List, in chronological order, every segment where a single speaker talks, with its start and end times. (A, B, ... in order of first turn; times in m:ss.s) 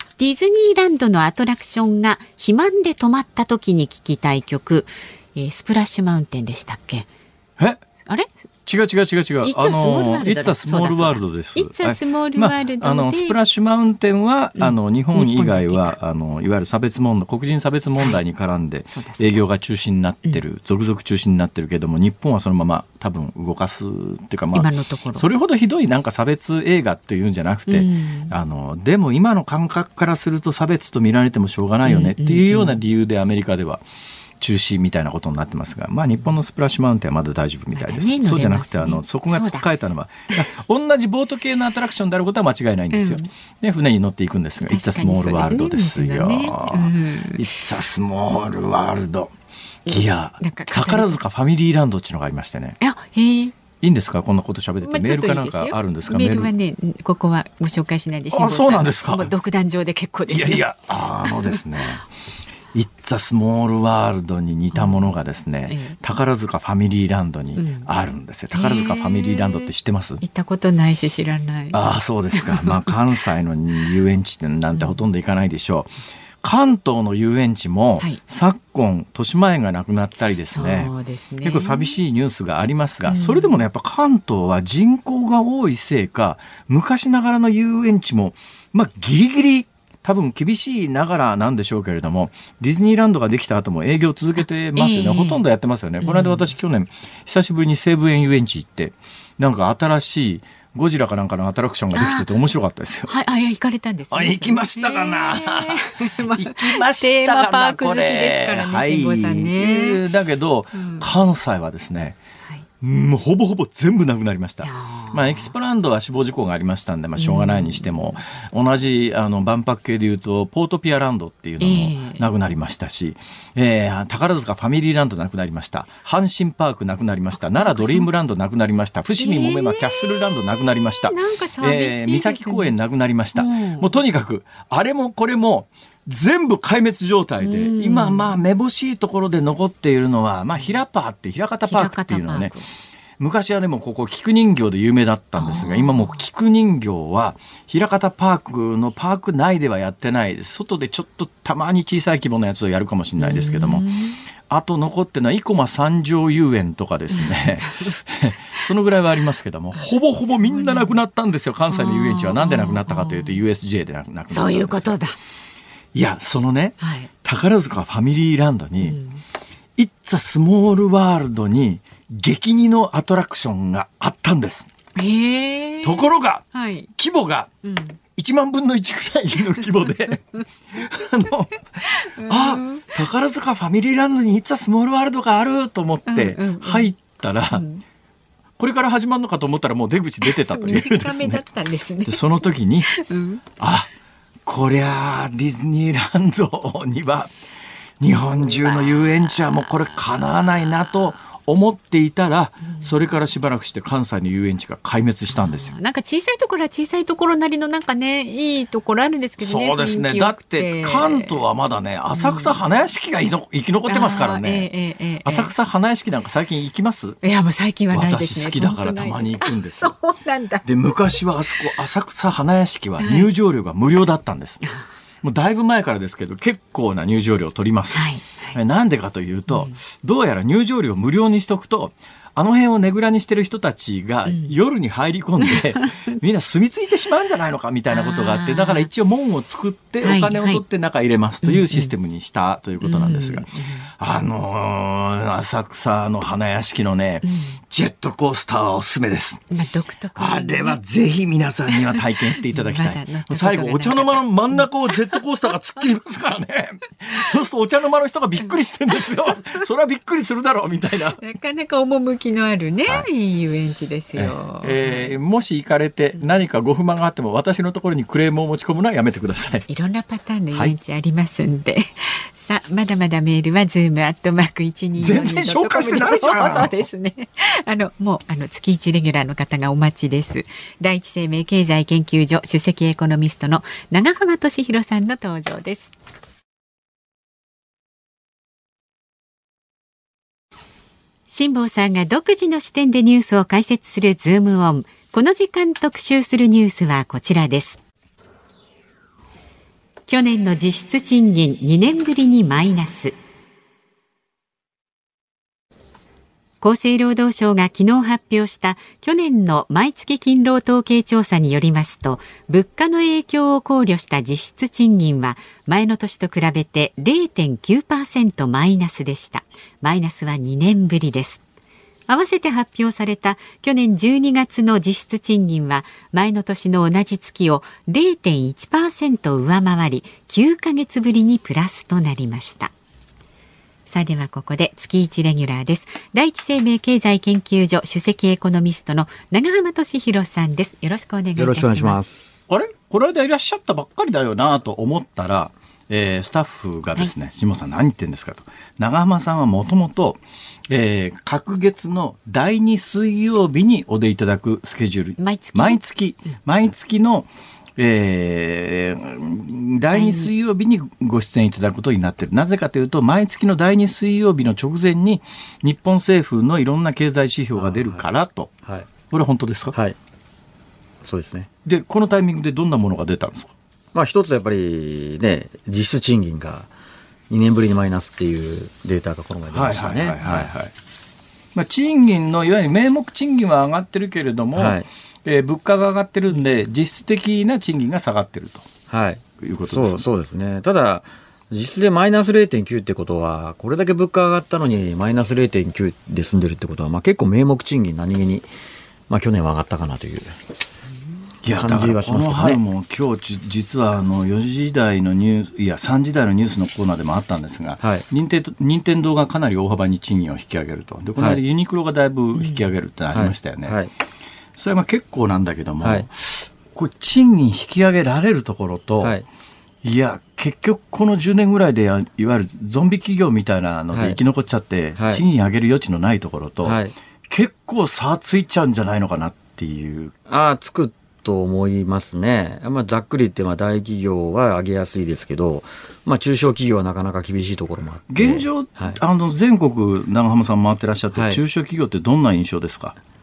0:00.2-0:07.1 A
0:08.7-0:33.8 B
0:09.4-0:13.4 A
0:14.6-0:16.0 A
0:18.9-0:19.4 A
0:24.5-0:25.2 A
0:27.7-0:28.4 A
0:31.9-0:32.8 A
0:34.4-0:49.3 B
0:37.7-0:39.6 A
0:42.9-0:43.3 A
0:44.6-0:47.4 A
0:49.9-0:51.2 A
0:49.9-0:52.8 B
0:52.8-0:53.6 A
0:53.8-0:56.5 B
0:54.8-1:00.7 A
0:58.3-0:59.3 B
1:00.3-1:02.0 B
1:01.2-1:01.6 A
1:02.7-1:10.2 B
1:04.7-1:05.0 A
1:05.7-1:06.0 A
1:07.6-1:07.9 A
1:08.5-1:09.7 A
1:10.2-1:11.8 A
1:11.7-1:15.9 B
1:12.3-1:12.9 A
1:16.4-1:43.1 B
1:20.5-1:21.9 A
1:23.1-1:23.5 A
1:34.8-1:35.4 A
1:36.0-1:36.5 A
1:42.0-1:42.3 A
1:43.1-1:50.0 A
1:44.1-1:52.2 B
1:50.7-1:51.1 A
1:52.8-2:22.5 B
1:54.6-1:55.5 A
1:57.2-1:58.1 A
2:01.6-2:02.2 A
2:07.5-2:08.1 A
2:09.2-2:12.7 A
2:13.4-2:13.9 A
2:17.4-2:18.3 A
2:21.7-2:22.7 A
2:23.2-2:33.9 B
2:25.4-2:26.2 A
2:33.2-2:34.2 A
2:34.5-2:45.0 B
2:37.1-2:38.0 A
2:39.8-2:41.0 A
2:41.7-2:43.4 A
2:44.3-2:45.2 A
2:45.9-2:49.0 B
2:46.8-2:47.1 A
2:48.8-2:49.2 A
2:49.8-2:54.7 B
2:55.0-2:56.9 A
2:55.8-2:56.4 B
2:57.0-2:57.5 B
2:57.6-2:58.0 A
2:58.2-3:07.6 B
3:01.9-3:02.9 A
3:06.1-3:06.9 A
3:07.5-3:07.8 A
3:08.6-3:11.4 B
3:10.2-3:12.2 A
3:12.0-3:12.9 B
3:12.9-3:13.4 A
3:13.6-3:13.9 B
3:14.5-3:17.3 B
3:18.0-3:25.8 B
3:18.4-3:19.9 A
3:25.3-3:31.4 A
3:29.4-3:34.7 B
3:32.2-3:32.6 A
3:33.9-3:35.5 A
3:35.2-3:37.2 B
3:37.2-3:40.6 A
3:37.9-3:39.9 B
3:40.6-3:44.6 B
3:43.0-3:43.3 A
3:44.6-3:44.9 A
3:45.2-4:09.4 B
3:47.9-3:48.6 A
3:49.5-3:49.8 A
3:54.3-3:54.5 A
3:55.5-3:56.2 A
3:57.9-3:58.9 A
4:00.0-4:00.6 A
4:01.4-4:01.9 A
4:02.8-4:03.9 A
4:07.2-4:07.6 A
4:09.5-4:10.8 A
4:10.2-4:21.2 B
4:11.7-4:15.2 A
4:19.0-4:19.6 A
4:21.2-4:25.1 A
4:24.2-4:29.7 B
4:29.7-4:45.9 A
4:35.0-4:36.8 B
4:51.3-4:57.8 A
5:00.1-5:03.2 A
5:06.6-5:21.4 A
5:22.1-5:32.7 A
5:33.9-5:42.0 A
5:41.4-5:42.4 C
5:42.5-6:08.5 B
5:55.2-5:55.8 A
5:59.9-6:00.3 A
6:07.6-6:08.0 C
6:09.1-6:09.8 B
6:11.0-6:11.5 C
6:11.6-6:13.5 B
6:13.9-6:16.7 C
6:17.3-6:20.5 C
6:19.5-6:20.7 B
6:21.6-6:28.7 B
6:24.6-6:24.9 C
6:28.9-6:38.5 C
6:29.4-6:30.0 B
6:39.1-6:40.3 C
6:41.4-6:53.8 B
6:41.5-6:42.6 C
6:53.1-6:53.9 C
6:54.6-6:59.1 B
6:55.8-6:56.1 C
6:59.0-6:59.3 C
6:59.8-7:10.1 B
7:03.9-7:04.2 C
7:05.0-7:05.2 C
7:06.6-7:06.9 C
7:10.3-7:19.0 C
7:18.1-7:23.0 B
7:21.1-7:21.4 C